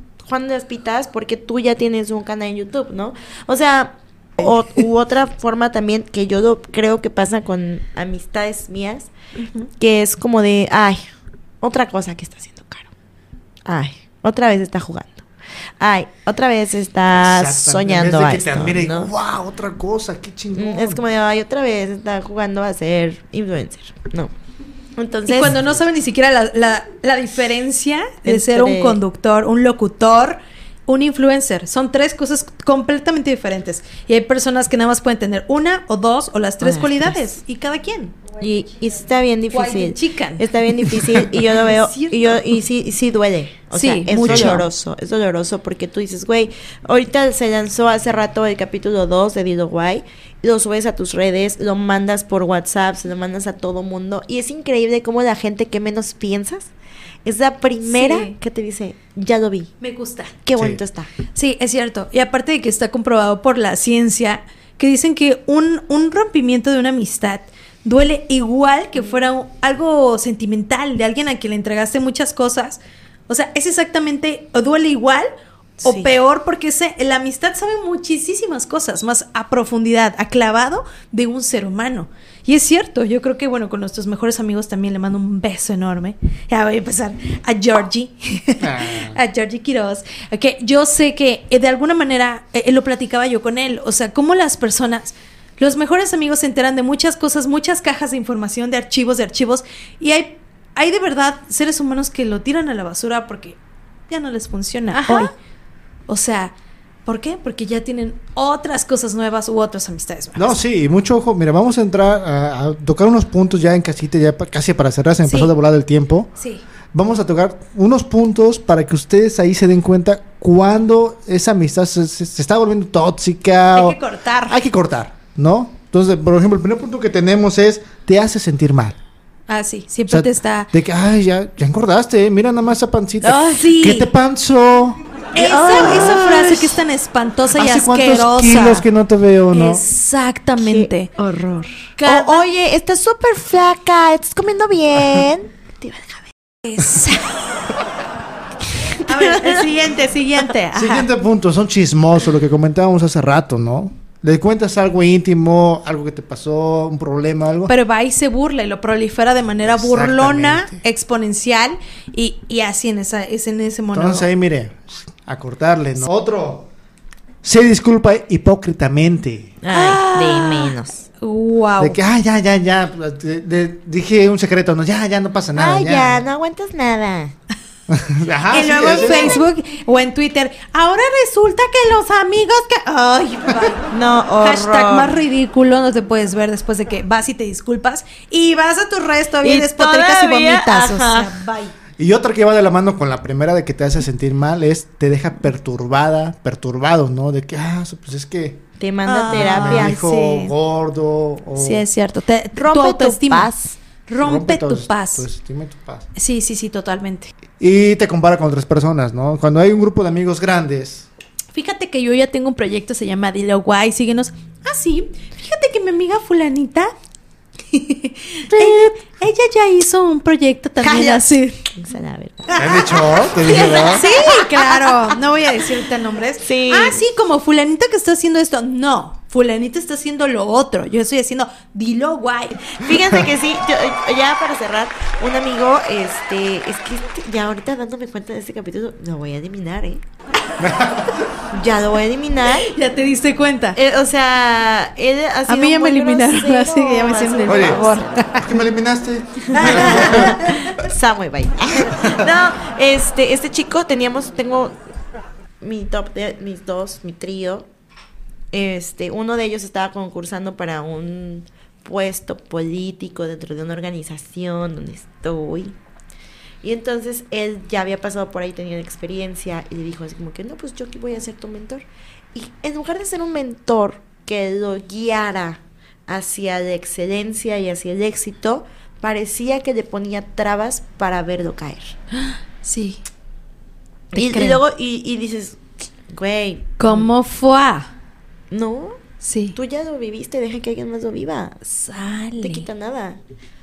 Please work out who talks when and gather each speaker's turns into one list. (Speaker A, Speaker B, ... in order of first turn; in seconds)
Speaker A: 0.2-11.0, 11.6-12.9, 13.7-15.2, 15.8-19.1, 20.5-24.3, 25.0-25.6, 28.2-29.0, 36.6-37.2, 38.4-56.7, 57.2-59.7, 60.4-61.1, 75.8-76.1, 104.9-105.3, 133.2-134.0, 135.4-136.7, 140.6-146.3, 148.8-149.7, 169.6-171.1, 175.6-177.3, 178.5-179.4, 183.9-185.2, 189.4-191.3, 198.8-200.0, 202.6-203.8, 218.5-218.9, 220.8-222.8, 223.4-225.2, 226.4-227.0, 232.6-240.0, 241.5-242.7, 243.8-248.3, 249.5-254.8, 255.6-257.7, 258.5-265.8, 266.6-281.9, 284.1-287.1, 288.5-289.0, 289.5-291.6, 292.4-293.2
Speaker B: 17.2-21.0, 44.2-44.6, 88.6-89.2, 110.3-116.3, 116.9-129.0, 130.1-135.0, 135.5-136.4, 137.5-139.8, 150.7-157.7, 159.6-160.8, 163.9-166.7, 167.4-169.5, 171.8-176.2, 177.9-179.4, 192.0-198.6, 199.3-201.8, 204.2-206.1, 207.6-211.1, 222.6-224.0, 240.6-241.2, 247.5-247.8, 248.4-250.4, 251.8-252.2
Speaker C: 25.3-38.1, 39.5-40.5, 41.5-42.5, 43.7-44.6, 57.9-58.3, 59.8-60.3, 61.3-75.3, 75.8-103.6, 104.1-105.3, 106.1-106.5, 107.0-110.6, 115.2-115.5, 116.4-116.6, 123.7-124.6, 129.5-130.7, 133.2-134.1, 135.3-138.8, 139.5-141.1, 142.0-142.4, 146.6-147.3, 149.1-151.1, 157.7-164.3, 169.7-172.0, 178.5-191.7, 199.1-200.5, 201.6-203.5, 204.1-205.2, 206.1-207.3, 211.5-216.9, 217.7-221.7, 222.5-232.6, 242.6-243.8, 245.5-248.4, 249.5-250.8, 282.1-283.0, 284.1-284.6, 286.8-287.9, 289.2-289.6, 291.6-292.6